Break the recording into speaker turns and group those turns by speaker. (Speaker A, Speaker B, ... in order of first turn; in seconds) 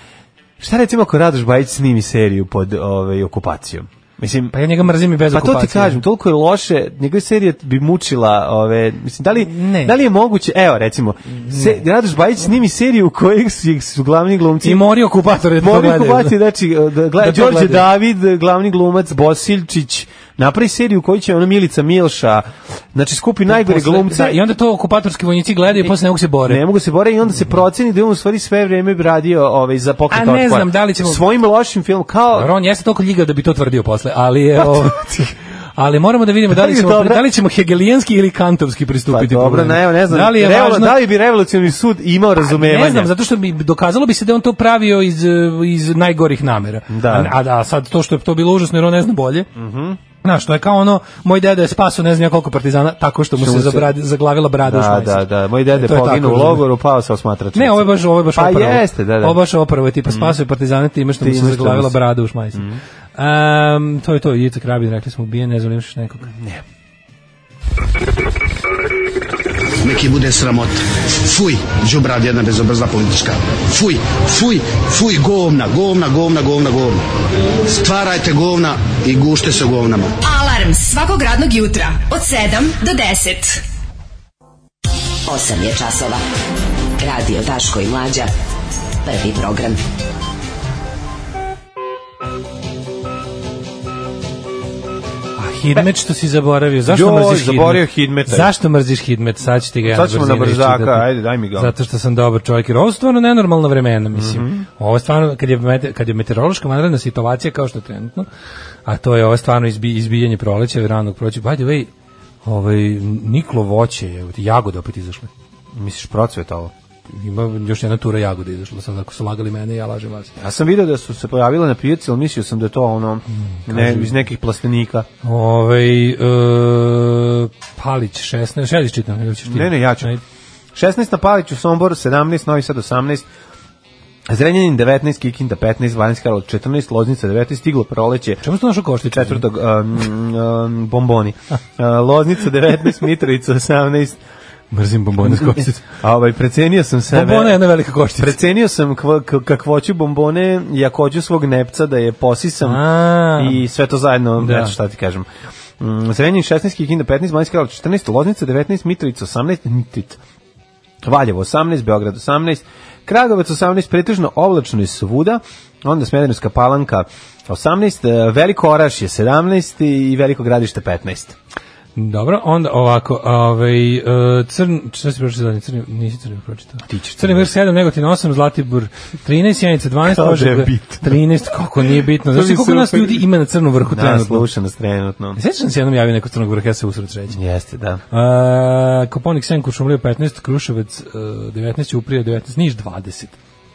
Speaker A: 0.6-4.6, 5.3-14.9, 15.4-24.4, 26.4-32.5, 34.6-35.3, 36.5-37.2, 39.1-43.1, 46.9-47.3, 49.5-50.0, 53.4-53.9, 54.6-59.4, 60.0-60.4, 61.2-62.0, 62.5-62.8, 66.3-66.6, 96.9-98.5, 99.8-101.7, 104.1-104.7, 115.7-116.7, 120.4-125.1, 129.4-130.1, 130.7-133.3, 134.3-138.4, 139.1-144.2, 145.2-147.6, 148.2-155.3, 155.8-160.2, 161.0-171.4, 176.9-177.5, 180.0-181.2, 182.0-183.2, 183.8-185.4, 187.3-188.0
Speaker B: 4.5-6.0, 9.4-9.9, 11.4-11.8, 14.6-16.4, 17.2-17.9, 23.5-26.6, 30.1-31.2, 32.3-35.3, 35.8-41.0, 42.4-49.5, 50.2-56.6, 57.5-66.3, 95.4-108.3, 108.9-111.9, 112.4-115.3, 117.1-120.3, 123.7-124.1, 125.2-130.2, 138.4-139.4, 144.7-145.8, 147.1-148.4, 152.6-153.6, 154.4-154.7, 171.9-184.4, 185.4-187.4, 188.1-193.4
Speaker C: 69.8-77.0, 77.6-80.2
Speaker D: 80.2-83.6
Speaker E: 85.3-86.2, 87.0-88.3, 89.0-89.8